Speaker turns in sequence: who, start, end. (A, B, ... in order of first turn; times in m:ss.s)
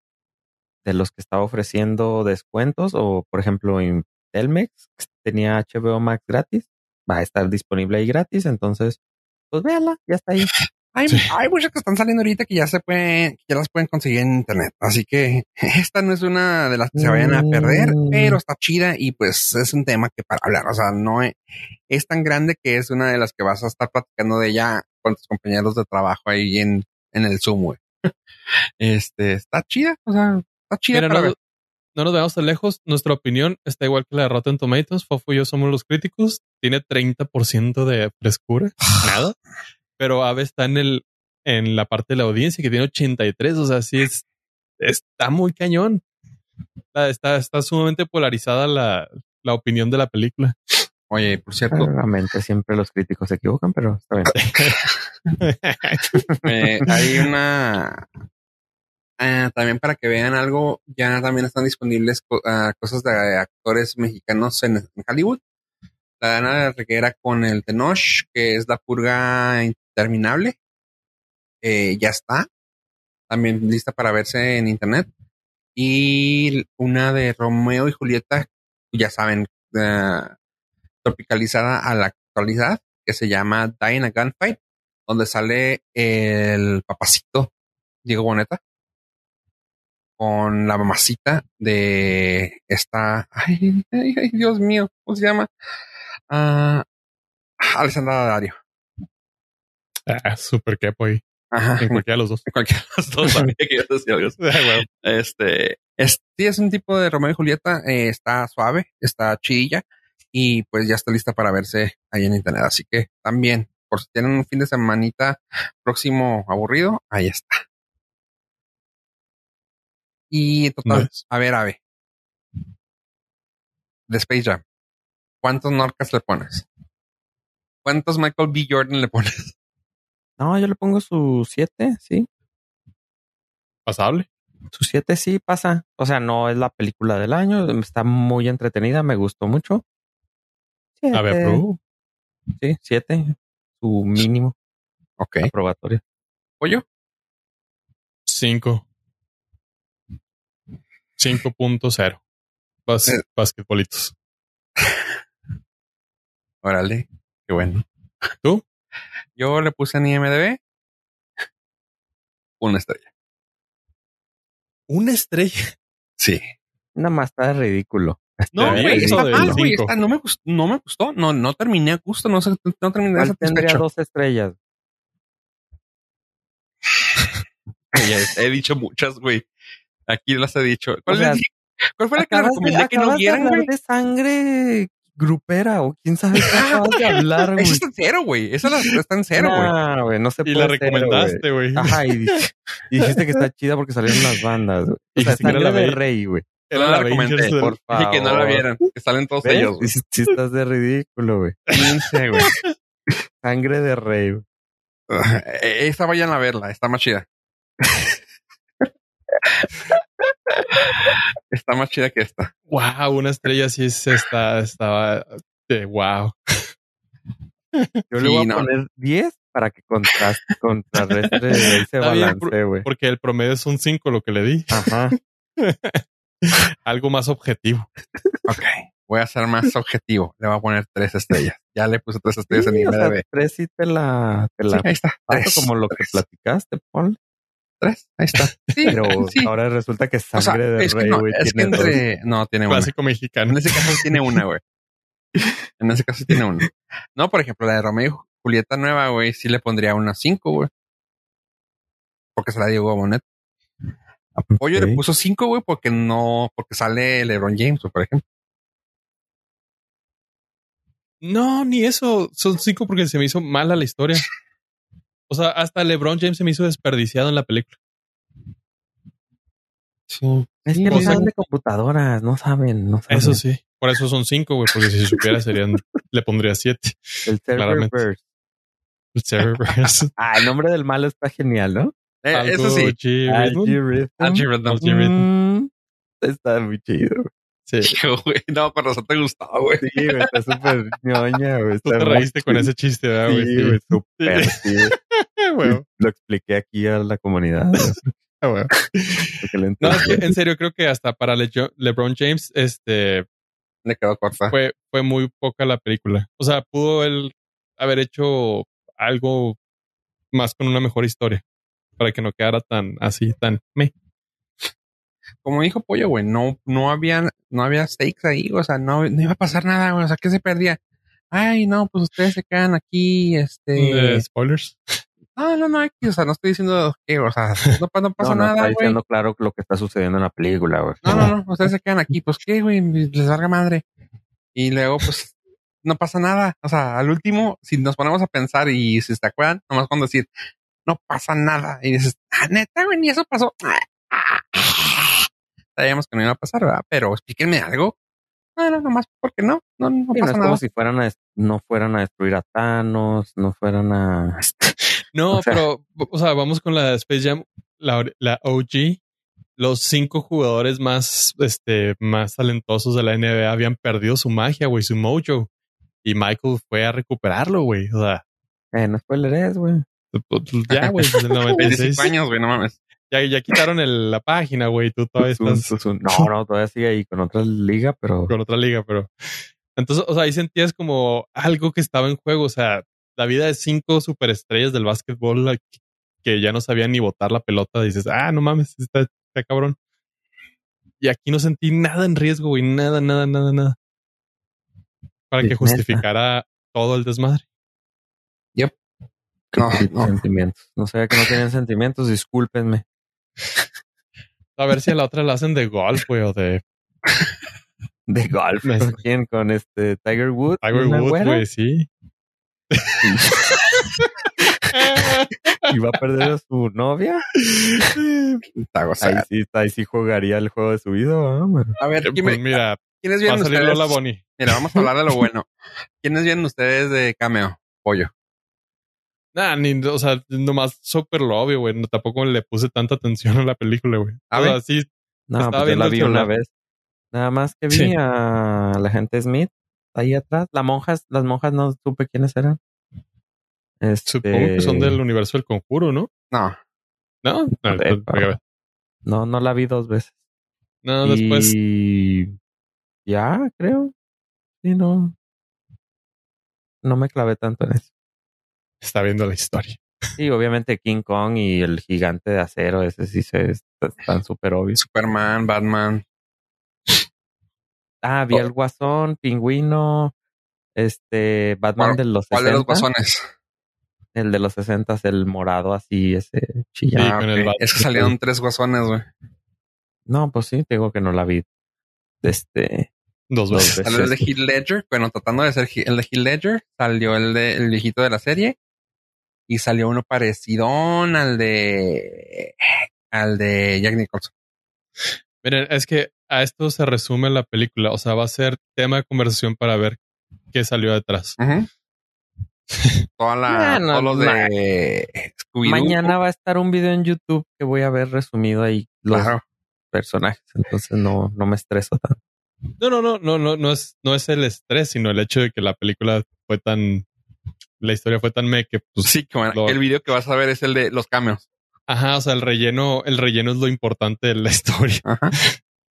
0:00.8-0:09.0 A
0:09.5-0:10.5 A
0:10.9-0:21.4 B
0:16.9-0:18.4 A
0:21.9-0:27.8 B
0:28.8-0:31.3 B
0:30.9-0:31.4 C
0:31.9-0:39.4 C
0:40.0-0:44.2 C
0:44.8-0:46.0 C
0:46.9-0:50.6 C
0:51.1-0:51.9 B
0:51.7-0:54.4 A
0:54.4-0:54.8 C
0:55.4-0:56.2 C
0:56.4-0:58.1 B
0:59.2-1:05.4 B
1:06.2-1:10.6 B
1:11.6-1:12.5 B
1:13.3-1:15.1 B
1:15.8-1:20.4 B
1:21.0-1:27.5 B
1:28.0-1:28.6 B
1:30.2-1:35.5 B
1:36.3-1:36.8 B
1:37.6-1:38.6 B
1:40.1-1:41.2 C
1:41.5-1:57.6 B
1:41.8-1:42.4 C
1:44.4-1:44.8 C
2:00.3-2:01.8 B
2:00.9-2:01.2 C
2:04.1-2:04.6 B
2:05.4-2:06.6 B
2:07.8-2:09.5 B
2:10.4-2:12.3 A
2:13.9-2:14.3 C
2:14.7-2:19.8 A
2:21.0-2:21.6 A
2:21.1-2:21.8 C
2:22.6-2:24.6 A
2:25.2-2:25.5 B
2:25.4-2:26.0 A
2:28.3-2:28.9 C
2:31.2-2:32.2 C
2:32.9-2:34.1 C
2:34.8-2:35.1 B
2:36.6-2:37.8 B
2:39.4-2:40.6 B
2:42.6-2:43.1 B
2:44.9-2:45.7 C
2:47.0-2:49.6 A
2:48.5-2:53.8 B
2:48.6-2:49.9 C
2:53.2-2:54.6 A
2:57.9-2:59.5 B
3:00.1-3:03.7 B
3:01.1-3:01.4 A
3:02.2-3:07.8 A
3:06.5-3:06.9 B
3:06.9-3:07.3 C
3:07.6-3:09.7 B
3:09.4-3:16.5 A
3:10.4-3:12.4 C
3:13.0-3:13.4 C
3:15.2-3:16.0 C
3:16.7-3:17.8 C
3:16.7-3:19.9 B
3:17.4-3:18.6 A
3:19.4-3:21.6 A
3:21.7-3:22.7 C
3:21.7-3:22.5 B
3:23.4-3:24.4 A
3:25.1-3:27.3 B
3:30.8-3:32.5 B
3:32.7-3:36.7 C
3:37.8-3:38.0 C
3:38.1-3:42.9 A
3:38.2-3:38.7 B
3:41.6-3:45.0 C
3:44.7-3:45.2 A
3:45.6-3:47.9 C
3:48.5-3:53.2 B
3:52.5-3:57.2 A
3:54.8-3:56.2 B
3:57.8-3:59.5 B
3:58.4-3:59.2 C
3:58.9-4:02.0 A
4:00.4-4:02.9 B
4:01.6-4:01.9 C
4:02.7-4:04.1 C
4:03.5-4:04.6 B
4:05.8-4:10.7 B
4:12.4-4:13.2 B
4:14.4-4:18.2 B
4:14.5-4:15.0 A
4:21.2-4:24.3 C
4:25.3-4:27.8 C
4:30.1-4:31.2 B
4:30.7-4:33.4 A
4:30.9-4:31.3 C
4:33.1-4:38.0 C
4:37.3-4:38.2 A
4:39.2-4:40.1 C
4:40.2-4:41.9 A
4:42.2-4:42.9 B
4:42.3-4:43.8 C
4:43.3-4:45.7 A
4:44.2-4:44.8 B
4:44.7-4:45.3 C
4:46.2-4:47.3 A
4:47.7-4:47.9 C
4:47.8-4:49.8 B
4:49.8-4:52.7 A
4:51.8-4:55.8 C
4:53.3-4:54.9 A
4:55.6-4:58.0 A
4:57.8-5:03.3 C
4:59.4-5:00.3 A
5:03.8-5:04.5 B
5:04.5-5:09.6 C
5:10.3-5:11.4 C
5:12.0-5:13.9 C
5:15.4-5:20.8 B
5:21.3-5:24.2 B
5:23.8-5:25.0 C
5:25.4-5:29.0 B
5:28.2-5:31.4 A
5:31.0-5:33.8 B
5:34.6-5:40.3 B
5:40.9-5:48.0 B
5:48.6-5:50.6 B
5:50.2-5:54.7 A
5:55.1-5:59.0 C
5:55.3-5:55.6 A
5:59.6-6:05.5 C
6:06.0-6:08.2 C
6:08.7-6:09.9 A
6:10.1-6:12.1 C
6:11.6-6:12.8 B
6:13.1-6:16.3 C
6:15.2-6:18.3 A
6:18.3-6:25.7 C
6:26.2-6:29.8 C
6:31.0-6:33.8 C
6:35.3-6:37.4 C
6:35.4-6:36.0 A
6:39.5-6:42.8 A
6:39.6-6:40.2 B
6:44.6-6:46.6 C
6:48.1-6:51.4 A
6:48.6-6:49.0 C
6:50.6-6:51.9 C
6:52.7-6:53.4 C
6:53.0-6:53.5 A
6:54.4-6:54.9 A
6:54.7-6:55.7 C
6:55.6-6:57.9 A
6:57.6-6:58.4 C
6:58.6-6:59.3 B
6:59.0-7:01.8 A
7:01.8-7:05.5 B
7:02.0-7:04.6 C
7:06.0-7:08.1 B
7:09.3-7:14.9 C
7:14.3-7:14.6 B
7:15.3-7:16.5 A
7:15.4-7:16.3 C
7:17.1-7:22.6 A
7:23.8-7:25.0 A
7:24.1-7:26.1 C
7:26.3-7:26.6 B
7:27.2-7:28.4 C
7:27.6-7:28.3 A
7:29.1-7:30.1 A
7:30.8-7:31.5 C
7:31.0-7:32.4 A
7:33.1-7:33.9 A
7:34.6-7:35.1 A
7:36.8-7:37.9 A
7:38.8-7:39.8 C
7:40.2-7:44.8 A
7:44.8-7:46.0 B
7:48.0-7:50.1 A
7:50.8-7:52.9 A
7:51.8-7:53.3 B
7:54.2-7:57.2 A
7:57.0-7:58.1 C
7:57.0-7:59.1 B
8:00.1-8:01.4 A
8:02.2-8:02.9 A
8:03.3-8:03.8 C
8:03.5-8:04.3 A
8:03.8-8:08.6 B
8:09.5-8:12.5 B
8:13.1-8:14.3 B
8:15.4-8:20.0 C
8:20.5-8:21.4 C
8:21.4-8:21.7 B
8:23.2-8:26.1 B
8:23.5-8:24.5 A
8:25.6-8:29.4 A
8:29.1-8:29.4 B
8:29.9-8:32.2 A
8:32.8-8:37.1 C
8:37.8-8:39.8 C
8:39.0-8:41.4 B
8:41.9-8:45.6 C
8:45.0-8:45.3 B